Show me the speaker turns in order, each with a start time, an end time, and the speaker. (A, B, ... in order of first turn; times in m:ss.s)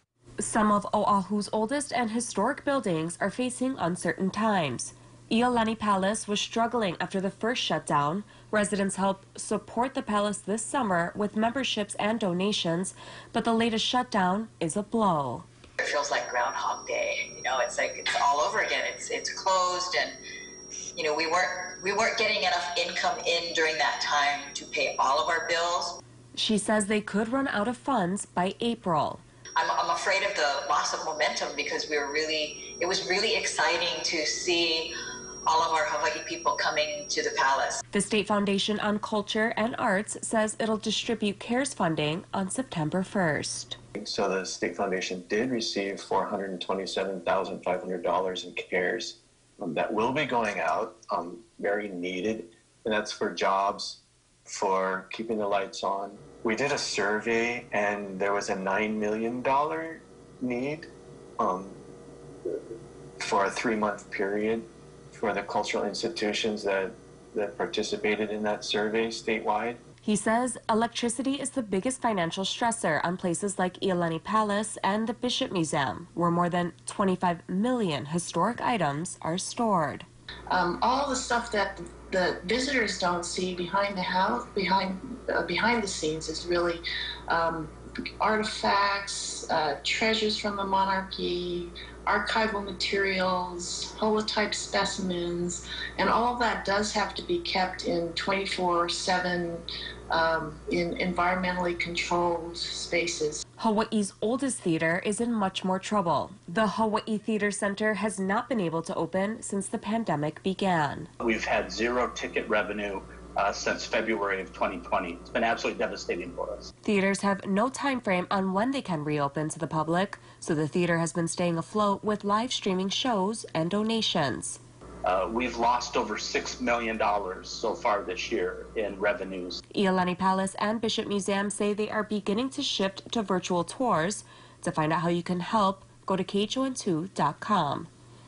0:00.4-0:15.4 A
0:15.8-0:20.1 B
0:21.0-0:26.0 B
0:26.3-0:29.2 A
0:29.6-0:34.9 B
0:35.5-0:37.8 B
0:37.9-0:43.8 A
0:44.0-1:00.9 C
1:01.4-1:01.8 C
1:03.2-1:09.8 C
1:10.0-1:20.0 A
1:20.5-1:43.4 D
1:43.6-1:51.1 A
1:51.2-1:56.7 E
1:56.8-2:04.6 A
2:05.0-2:09.6 E
2:09.7-2:17.9 A